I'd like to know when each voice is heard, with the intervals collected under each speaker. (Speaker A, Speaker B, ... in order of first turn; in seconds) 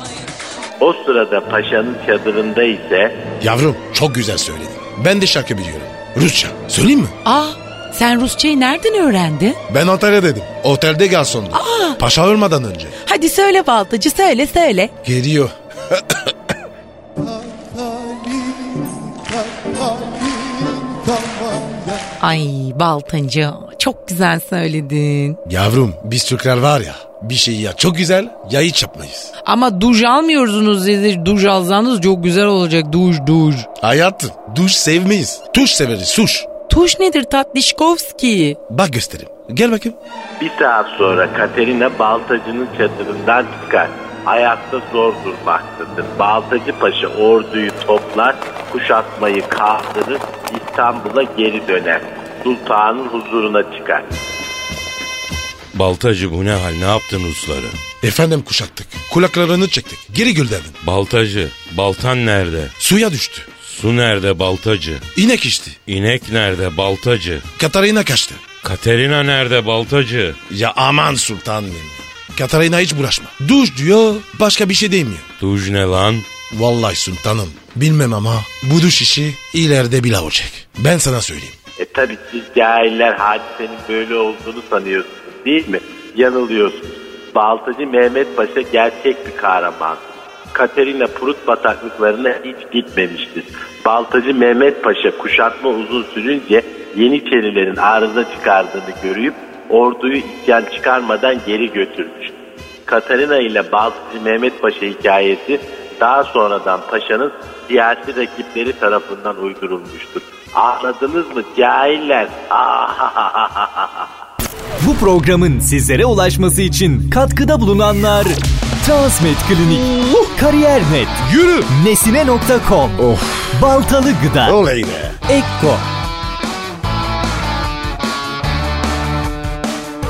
Speaker A: 0.8-3.2, 40.4-54.1, 81.8-102.3, 102.9-114.1
Speaker B: 3.4-7.1, 9.7-12.9, 15.1-15.5, 25.5-29.3, 33.9-36.5, 38.7-39.9, 58.0-60.7, 62.8-63.5, 65.2-65.8, 67.6-68.4, 70.5-75.2, 76.6-81.5, 123.1-123.6, 124.4-125.1
Speaker C: 7.2-9.6, 11.5-12.0, 13.0-14.9, 22.2-25.4, 29.4-33.7, 36.7-38.6
Speaker D: 55.7-57.8, 60.8-62.7, 63.6-65.0, 65.9-67.4, 68.6-70.4, 75.4-76.3
Speaker E: 114.8-123.0, 123.5-124.6, 125.3-125.8